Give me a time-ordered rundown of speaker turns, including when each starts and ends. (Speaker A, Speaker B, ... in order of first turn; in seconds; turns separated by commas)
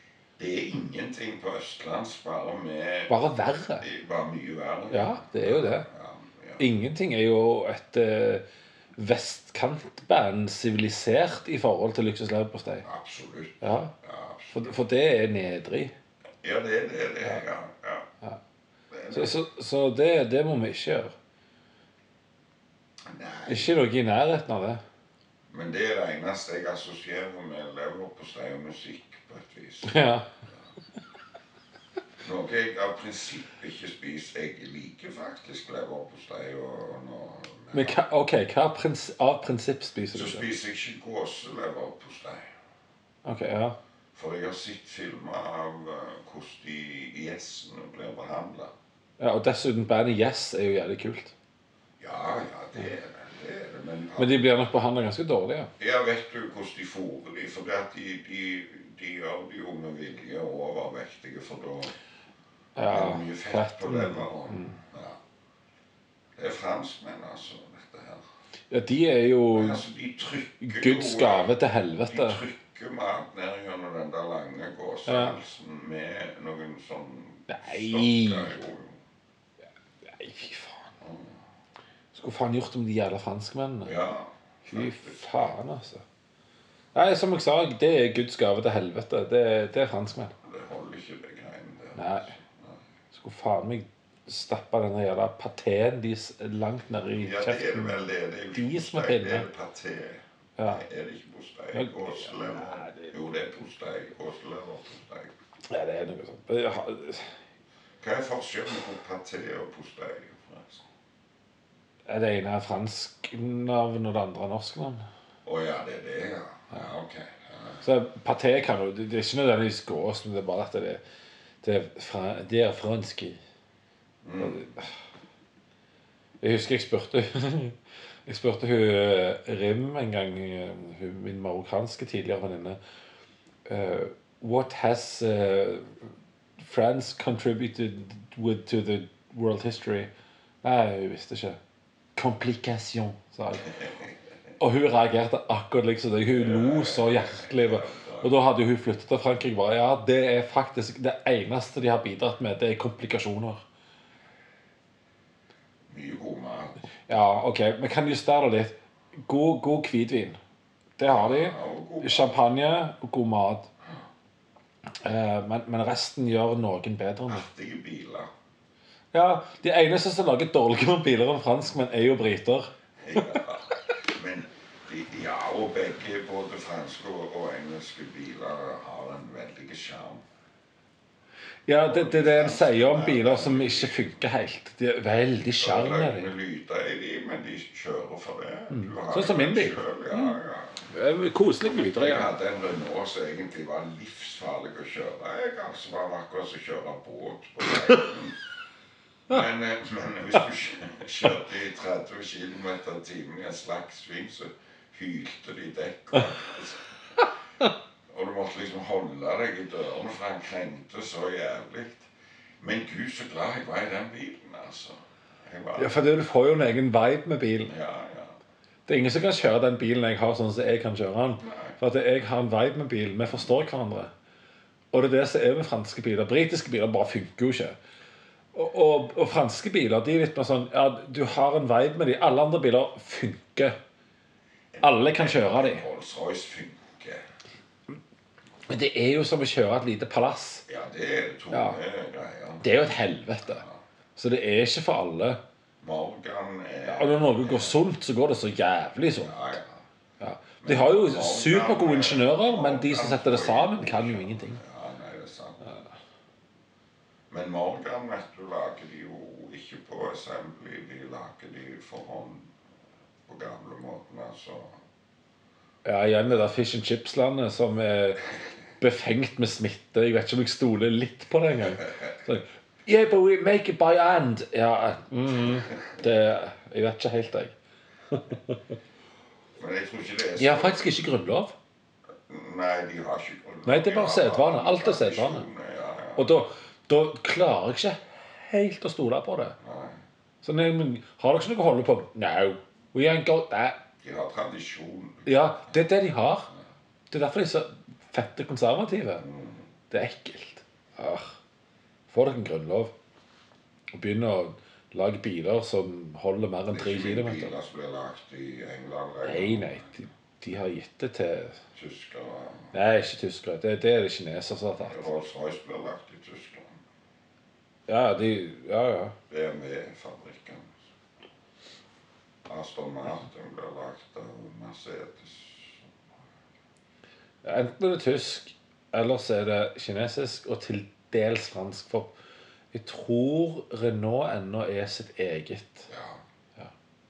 Speaker A: 0.4-3.2, Speaker B: 3.1-3.9, Speaker A: 3.8-6.7, Speaker B: 4.9-5.9, Speaker B: 6.6-8.4, Speaker B: 9.0-12.9, Speaker A: 12.8-14.8, Speaker B: 13.6-13.9, Speaker B: 14.5-15.9, Speaker A: 16.4-18.1, Speaker A: 18.9-19.5, Speaker B: 19.1-21.1, Speaker A: 23.1-23.8, Speaker B: 23.5-24.8, Speaker A: 25.5-30.0, Speaker B: 29.8-30.3, Speaker A: 32.2-38.0, Speaker B: 37.7-40.5, Speaker A: 40.1-42.5, Speaker B: 43.2-43.8, Speaker A: 44.1-48.7, Speaker B: 49.2-51.3, Speaker A: 52.0-54.4, Speaker B: 54.2-55.7, Speaker A: 55.8-61.9, Speaker B: 62.8-64.8, Speaker A: 62.9-65.2, Speaker A: 66.4-68.2, Speaker B: 68.7-69.8, Speaker A: 69.5-71.5, Speaker B: 70.6-72.5, Speaker A: 72.1-79.0, Speaker B: 75.1-75.4, Speaker B: 77.5-78.6, Speaker B: 80.0-81.0, Speaker A: 81.0-81.4, Speaker B: 82.1-84.0, Speaker A: 83.8-85.5, Speaker B: 84.7-86.0, Speaker B: 87.0-90.3, Speaker A: 90.4-92.8, Speaker B: 92.0-92.3, Speaker B: 93.1-98.0, Speaker A: 97.2-105.3, Speaker B: 98.5-99.5, Speaker B: 100.6-100.8, Speaker B: 101.7-103.1, Speaker B: 105.7-107.4, Speaker A: 108.0-110.8, Speaker B: 112.1-115.0, Speaker A: 115.5-117.8, Speaker B: 117.8-121.0, Speaker B: 121.6-123.4, Speaker A: 124.2-124.8, Speaker B: 124.4-124.9, Speaker B: 126.4-132.8, Speaker B: 133.7-136.0, Speaker B: 136.6-140.1, Speaker B: 140.6-141.6, Speaker B: 142.2-143.8, Speaker A: 143.6-144.1, Speaker B: 144.6-153.6, Speaker A: 146.3-148.4, Speaker A: 155.9-156.8, Speaker B: 157.1-158.7, Speaker B: 159.3-160.4, Speaker B: 161.0-163.7, Speaker A: 161.1-162.4, Speaker B: 165.0-167.5, Speaker A: 167.3-168.3, Speaker B: 169.1-173.4, Speaker A: 173.0-180.2, Speaker B: 181.7-186.3, Speaker A: 181.8-184.1, Speaker A: 185.5-190.8, Speaker B: 188.7-192.3, Speaker A: 191.7-198.4, Speaker A: 199.3-206.9, Speaker A: 208.1-216.0, Speaker B: 215.8-217.7, Speaker A: 217.6-218.4, Speaker B: 218.9-224.1, Speaker A: 221.4-221.8, Speaker B: 224.9-227.8, Speaker B: 228.5-233.7, Speaker A: 234.7-237.2, Speaker B: 234.8-235.8, Speaker B: 238.7-240.7, Speaker A: 240.7-242.8, Speaker B: 241.5-241.8, Speaker B: 242.6-243.6, Speaker A: 243.5-243.8, Speaker B: 244.2-245.4, Speaker A: 245.8-247.8, Speaker B: 246.8-249.4, Speaker A: 249.1-249.8, Speaker B: 250.2-254.6, Speaker A: 250.6-255.7, Speaker A: 257.3-262.5, Speaker A: 263.3-264.8, Speaker B: 265.9-268.2, Speaker B: 268.8-277.5, Speaker B: 278.1-278.6, Speaker A: 279.6-280.9, Speaker B: 280.4-281.5, Speaker A: 282.3-286.4, Speaker B: 283.7-285.5, Speaker B: 286.2-289.6, Speaker A: 289.6-290.0, Speaker B: 290.4-293.8, Speaker A: 294.0-295.9, Speaker B: 295.3-296.5, Speaker B: 297.1-299.2, Speaker A: 299.2-299.7, Speaker B: 299.9-301.4, Speaker B: 302.1-302.9, Speaker B: 303.9-307.5, Speaker A: 306.7-309.9, Speaker B: 309.2-311.6, Speaker A: 311.8-312.8, Speaker B: 312.7-315.1, Speaker A: 314.8-316.8, Speaker B: 317.9-319.1, Speaker A: 319.3-320.8, Speaker A: 322.5-325.9, Speaker B: 327.4-332.1, Speaker B: 332.7-335.9, Speaker A: 335.9-336.2